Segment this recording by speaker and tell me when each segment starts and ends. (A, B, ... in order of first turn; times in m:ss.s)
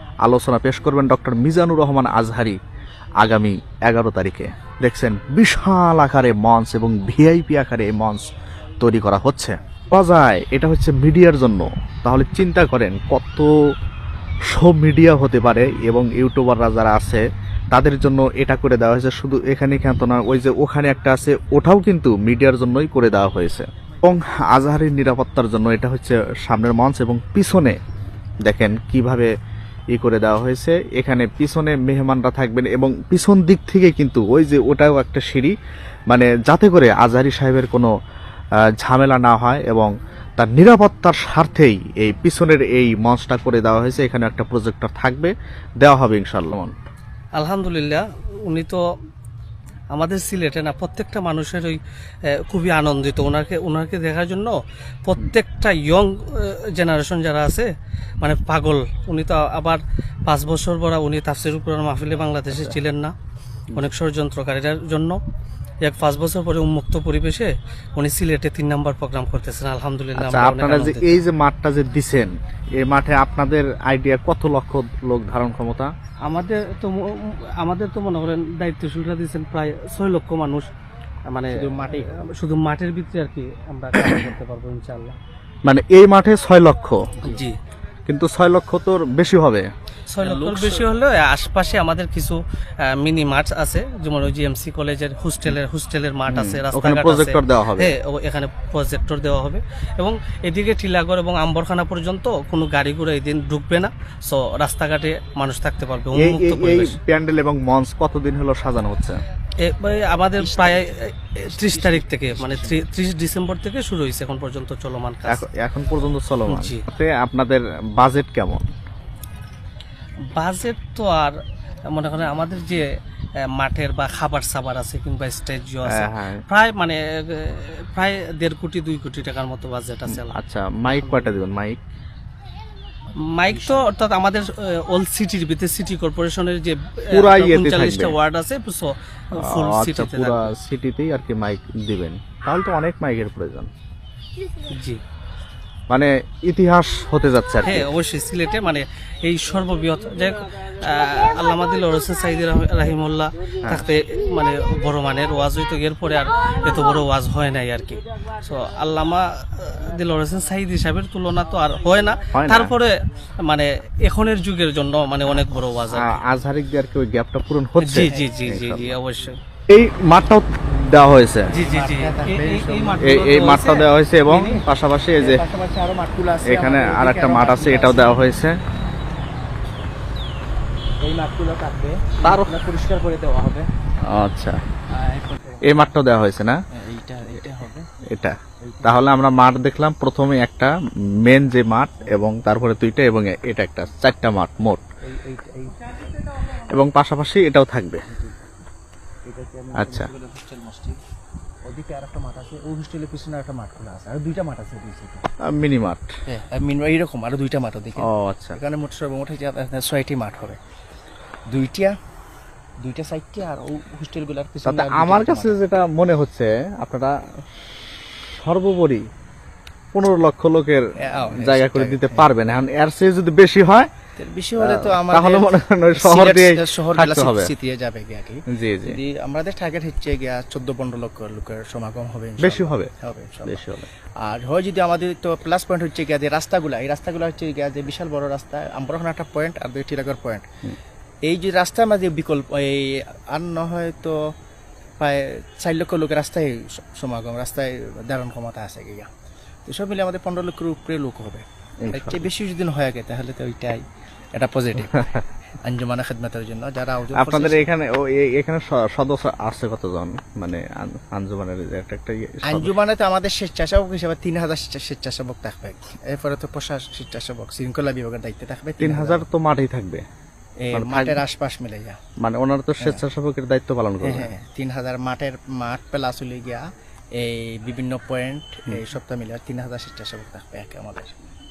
0:00.2-0:02.6 A
0:03.2-0:13.5 A
0:14.5-0:27.8 A
0:28.4-0:29.3 A
0:29.9-0:35.5 A
0:36.1-0:37.9 A
0:38.7-0:46.7 A
0:47.4-0:48.8 B
0:49.9-0:57.7 B
0:58.2-1:03.1 B
1:02.5-1:02.7 A
1:03.7-1:05.2 B
1:05.8-1:11.2 B
1:10.2-1:15.9 A
1:16.2-1:20.7 B
1:21.3-1:25.2 B
1:21.5-1:22.1 C
1:25.6-1:27.2 A
1:27.2-1:27.6 B
1:28.1-1:29.7 A
1:30.1-1:47.0 B
1:30.2-1:30.9 C
1:36.3-1:37.9 A
1:46.1-1:49.2 A
1:49.6-1:55.4 B
1:50.4-1:52.9 C
1:55.3-1:58.6 A
1:56.5-1:56.8 B
2:00.3-2:01.4 B
2:01.9-2:02.9 B
2:03.4-2:10.4 B
2:05.9-2:06.4 A
2:10.1-2:11.8 A
2:10.9-2:11.3 B
2:13.2-2:20.5 B
2:13.4-2:13.9 C
2:17.1-2:18.1 A
2:19.4-2:23.7 A
2:24.6-2:25.0 B
2:25.9-2:27.9 A
2:27.6-2:46.2 B
2:42.3-2:42.7 A
2:45.9-2:48.9 A
2:47.8-2:49.4 B
2:49.7-2:51.5 A
2:51.5-2:53.9 B
2:51.6-2:53.4 C
2:53.0-2:55.4 A
2:54.3-2:54.6 C
2:55.2-2:58.2 C
2:56.4-2:58.6 A
3:01.0-3:03.7 C
3:02.2-3:02.5 A
3:04.1-3:04.6 A
3:04.9-3:05.9 C
3:05.6-3:06.6 A
3:06.7-3:07.8 C
3:08.1-3:10.7 A
3:08.6-3:09.1 C
3:11.2-3:14.8 A
3:15.0-3:16.2 C
3:16.6-3:18.0 A
3:18.1-3:18.4 C
3:19.2-3:21.0 C
3:19.8-3:20.1 A
3:21.6-3:25.3 C
3:25.4-3:26.1 A
3:26.3-3:30.6 C
3:28.0-3:28.6 A
3:31.5-3:31.9 C
3:32.8-3:35.8 C
3:34.6-3:37.1 A
3:38.3-3:39.1 A
3:39.9-3:43.9 A
3:41.0-3:42.3 C
3:44.2-4:00.4 C
3:44.6-3:47.5 A
3:48.5-3:49.0 A
3:52.4-3:52.9 A
3:53.5-3:53.9 A
4:01.2-4:04.2 C
4:05.0-4:09.1 C
4:09.6-4:13.8 C
4:11.8-4:12.3 A
4:14.3-4:15.1 C
4:15.6-4:17.7 C
4:17.1-4:22.7 A
4:22.4-4:29.3 C
4:28.8-4:30.0 A
4:30.6-4:32.0 C
4:30.7-4:31.2 A
4:32.2-4:34.3 A
4:34.0-4:41.2 C